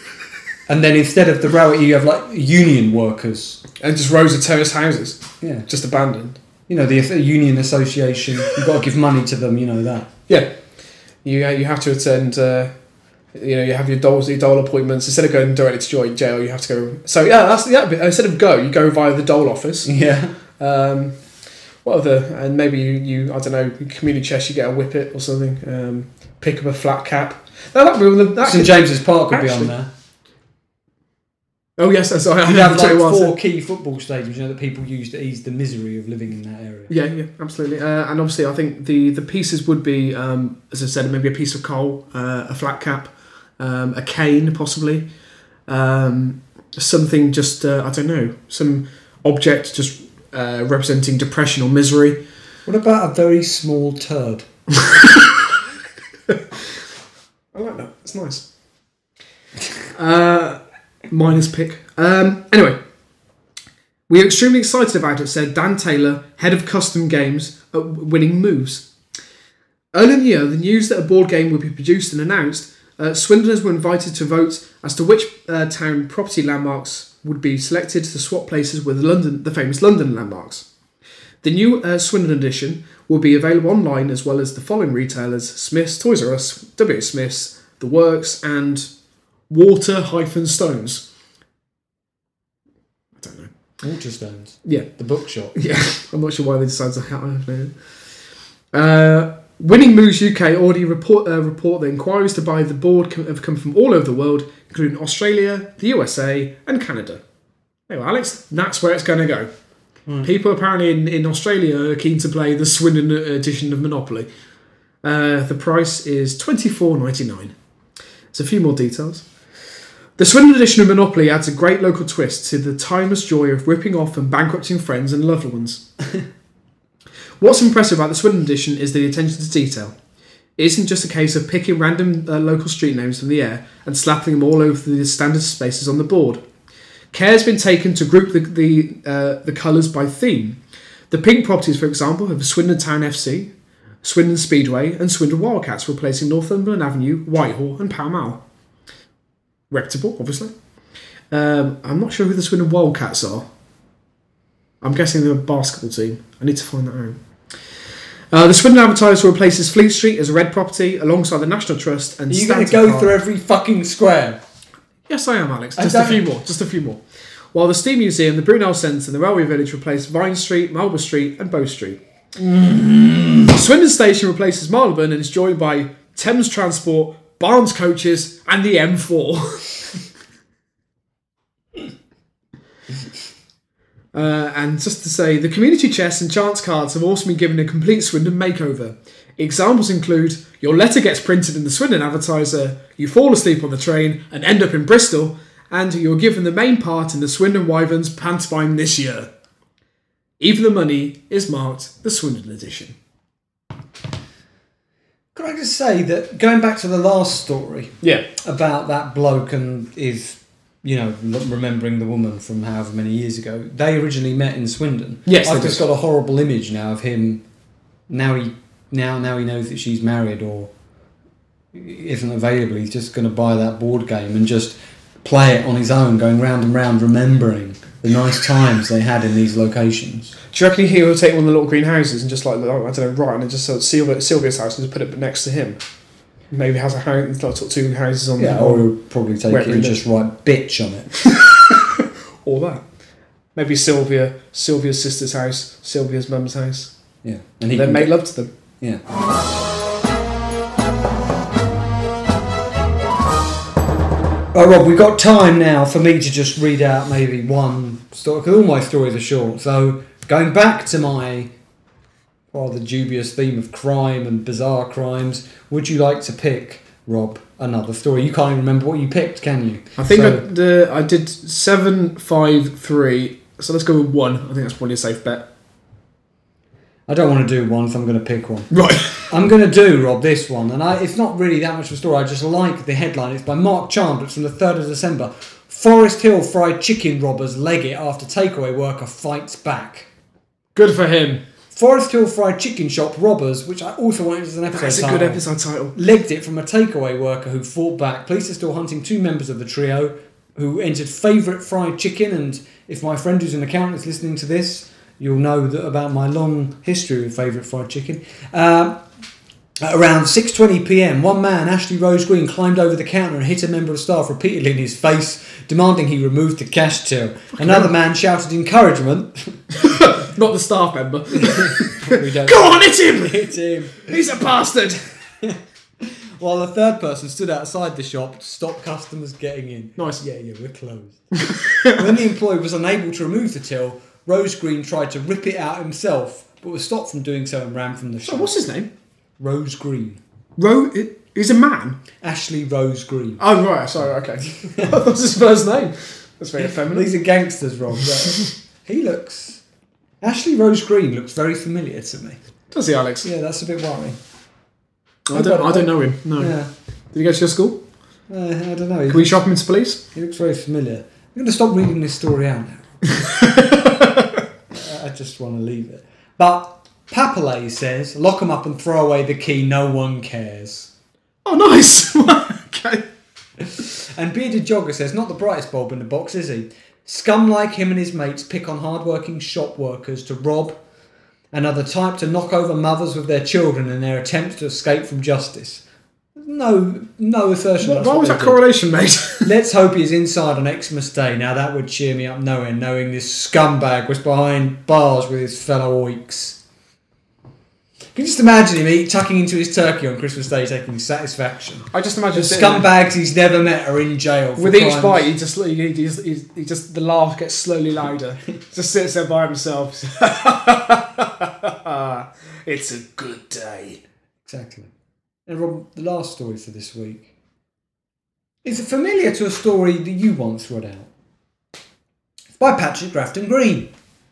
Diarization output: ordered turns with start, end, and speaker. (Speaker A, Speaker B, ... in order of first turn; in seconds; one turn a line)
Speaker A: 0.7-3.6
Speaker B: 3.8-6.4
Speaker A: 5.4-5.7
Speaker A: 6.7-10.1
Speaker B: 11.2-12.7
Speaker B: 13.3-19.9
Speaker A: 19.9-20.4
Speaker B: 20.6-21.1
Speaker B: 21.8-29.7
Speaker A: 28.4-29.9
Speaker B: 31.8-33.4
Speaker A: 32.4-36.9
Speaker B: 36.9-45.1
Speaker B: 45.7-52.2
Speaker A: 52.7-54.5
Speaker B: 57.5-58.5
Speaker B: 59.9-62.8
Speaker B: 64.1-68.9
Speaker B: 69.9-80.7
Speaker B: 81.4-88.9
Speaker B: 89.5-91.1
Speaker B: 93.2-93.5
Speaker A: 93.8-95.6
Speaker B: 95.5-97.7
Speaker B: 98.7-107.2
Speaker B: 107.9-109.5
Speaker B: 110.2-114.3
Speaker B: 115.0-117.5
Speaker B: 118.3-119.2
Speaker B: 120.2-125.9
Speaker B: 127.4-129.9
Speaker B: 130.6-136.4
Speaker B: 137.1-140.6
Speaker B: 141.1-148.4
Speaker B: 149.7-150.5
Speaker B: 151.3-153.5
Speaker B: 154.8-157.2
Speaker B: 158.3-163.1
Speaker A: 162.3-164.4
Speaker B: 165.1-167.0
Speaker A: 165.8-166.2
Speaker B: 167.5-172.0
Speaker A: 172.4-173.5
Speaker B: 173.5-180.0
Speaker B: 184.1-199.3
Speaker B: 200.4-203.0
Speaker A: 205.3-217.4
Speaker B: 208.0-208.3
Speaker B: 215.3-215.8
Speaker A: 218.1-220.7
Speaker A: 221.7-230.3
Speaker B: 230.5-235.8
Speaker B: 236.5-238.9
Speaker A: 238.4-241.3
Speaker B: 239.5-240.0
Speaker B: 241.3-242.8
Speaker B: 243.6-246.9
Speaker A: 247.2-248.1
Speaker B: 247.7-248.5
Speaker A: 254.5-261.5
Speaker A: 262.5-270.4
Speaker B: 270.0-275.5
Speaker A: 277.1-290.1
Speaker B: 278.7-279.3
Speaker B: 290.8-291.4
Speaker A: 291.7-295.4
Speaker B: 294.7-296.0
Speaker A: 295.9-309.0
Speaker A: 309.8-319.6
Speaker B: 317.6-317.9
Speaker B: 319.7-325.0
Speaker A: 321.4-324.1
Speaker A: 325.4-338.5
Speaker B: 330.0-330.2
Speaker B: 331.4-331.9
Speaker B: 338.2-338.9
Speaker A: 339.4-340.2
Speaker B: 340.6-342.0
Speaker A: 342.2-343.4
Speaker B: 343.4-347.1
Speaker A: 344.6-344.9
Speaker A: 346.6-349.6
Speaker A: 350.2-352.4
Speaker B: 352.7-353.3
Speaker A: 353.2-354.2
Speaker B: 355.3-356.6
Speaker A: 355.3-356.7
Speaker B: 357.1-357.8
Speaker A: 358.3-359.4
Speaker B: 359.1-360.0
Speaker A: 360.1-363.1
Speaker B: 363.1-364.4
Speaker A: 364.7-370.9
Speaker B: 371.4-373.1
Speaker A: 373.6-380.8
Speaker A: 381.5-385.8
Speaker A: 386.4-388.6
Speaker B: 387.8-389.5
Speaker A: 389.4-396.6
Speaker A: 398.1-405.3
Speaker B: 401.9-402.9
Speaker B: 404.6-414.0
Speaker A: 414.5-414.9
Speaker A: 415.5-417.3
Speaker A: 418.6-421.1
Speaker A: 422.6-423.9